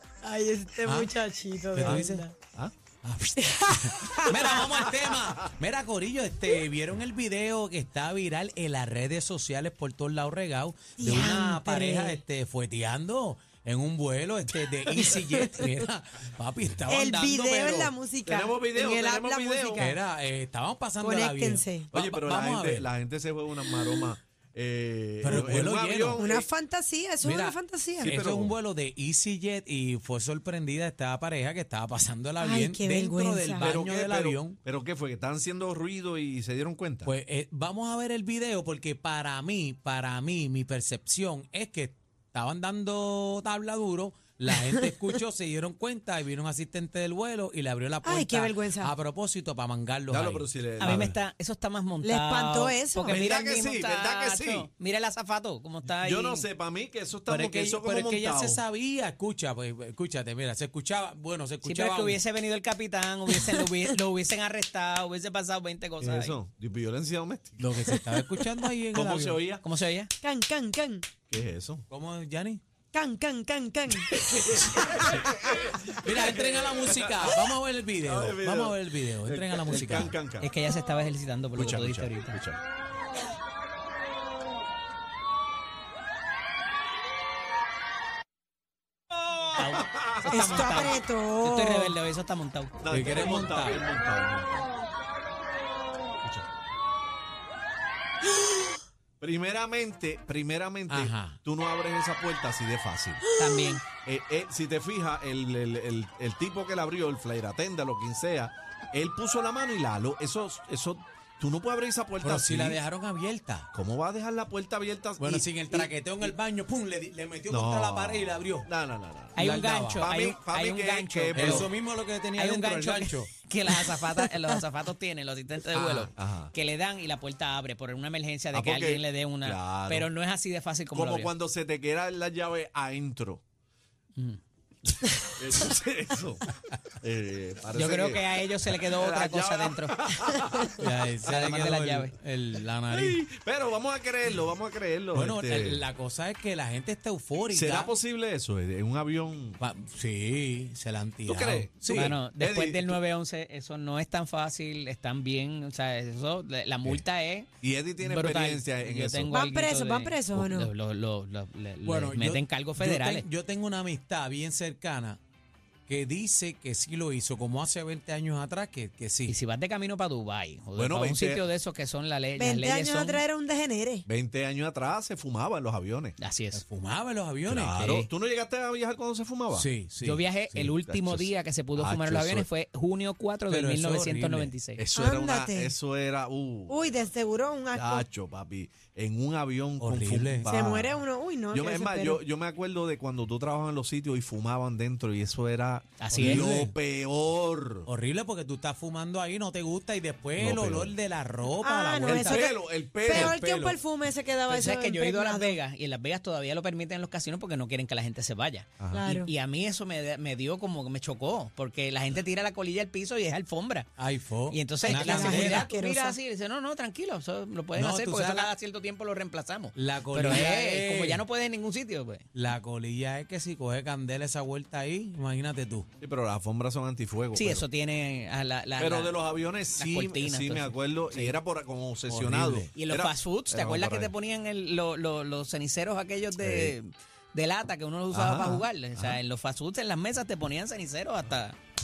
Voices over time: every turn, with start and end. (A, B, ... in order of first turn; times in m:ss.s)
0:00.2-0:02.3 A
0:00.8-0:01.1 B
0:01.8-0:02.3 B
0:01.8-0:02.7 C
0:03.0-0:17.9 B
0:03.4-0:05.0 A
0:11.0-0:12.2 A
0:11.1-0:11.5 D
0:14.8-0:15.8 A
0:16.8-0:20.0 A
0:18.3-0:19.9 C
0:19.8-0:22.9 B
0:21.0-0:21.9 A
0:21.9-0:26.5 C
0:25.2-0:26.2 B
0:25.3-0:25.6 A
0:26.1-0:28.1 A
0:27.2-0:34.6 B
0:28.0-0:28.6 C
0:32.4-0:33.8 A
0:33.6-0:37.1 C
0:37.1-0:51.1 B
0:48.0-0:48.9 A
0:50.1-0:51.2 C
0:50.8-0:56.5 D
0:52.0-0:53.2 A
0:53.0-0:54.7 C
0:56.0-0:58.6 C
0:57.4-1:02.2 B
1:01.6-1:06.4 D
1:06.0-1:07.8 C
1:07.6-1:09.4 B
1:08.9-1:09.6 C
1:09.6-1:10.1 D
1:10.2-1:11.1 A
1:11.3-1:11.9 C
1:11.9-1:12.6 B
1:12.9-1:15.4 A
1:15.6-1:20.5 C
1:16.0-1:20.1 B
1:20.4-1:22.4 D
1:21.6-1:22.6 C
1:29.3-1:30.8 C
1:29.5-1:32.7 D
1:30.2-1:32.0 A
1:32.8-1:34.7 C
1:32.9-1:33.8 B
1:39.2-1:43.2 C
1:40.9-1:41.4 B
1:43.4-1:43.8 D
1:44.0-1:52.8 C
1:52.2-1:53.7 B
1:53.7-1:55.9 C
1:55.2-1:58.7 B
1:57.5-2:01.7 C
1:59.4-2:01.7 D
1:59.4-2:00.0 B
2:01.4-2:03.3 B
2:02.4-2:11.3 D
2:05.9-2:06.5 C
2:08.5-2:10.1 C
2:10.9-2:13.4 C
2:14.9-2:20.8 C
2:17.7-2:19.9 D
2:20.8-2:23.1 B
2:21.2-2:22.1 D
2:22.9-2:25.8 C
2:25.1-2:27.9 B
2:27.5-2:29.6 C
2:29.6-2:32.1 B
2:31.2-2:33.0 C
2:31.9-2:37.5 D
2:37.6-2:39.3 C
2:38.0-2:43.3 D
2:39.3-2:40.7 A
2:41.8-2:45.2 B
2:45.9-2:49.4 B
2:49.3-2:53.2 D
2:50.8-2:51.4 C
2:52.4-2:54.1 A
2:54.1-2:56.2 C
2:56.2-2:56.6 D
2:56.5-2:57.8 B
2:57.5-2:59.7 C
2:57.7-2:58.1 D
2:59.6-3:00.4 B
3:00.0-3:04.8 D
3:00.6-3:02.5 C
3:03.5-3:04.6 B
3:04.8-3:06.9 C
3:04.9-3:05.8 A
3:06.7-3:08.0 A
3:07.7-3:11.0 C
3:09.8-3:10.5 B
3:10.4-3:12.2 A
3:11.5-3:17.9 C
3:16.0-3:16.4 D
3:16.1-3:16.8 B
3:17.9-3:22.5 B
3:20.4-3:21.0 C
3:21.5-3:25.6 A
3:22.0-3:23.4 C
3:23.3-3:23.8 B
3:24.5-3:33.9 D
3:28.9-3:29.3 A
3:34.0-3:35.7 B
3:34.5-3:42.3 D
3:34.8-3:36.2 A
3:37.8-3:38.5 B
3:39.7-3:41.2 B
3:42.3-3:45.9 B
3:46.0-3:47.6 C
3:47.3-3:49.2 D
3:48.8-3:54.1 C
3:49.8-3:51.4 D
3:52.1-3:52.7 B
3:52.8-4:01.6 D
3:56.4-3:56.8 C
3:58.1-3:59.2 C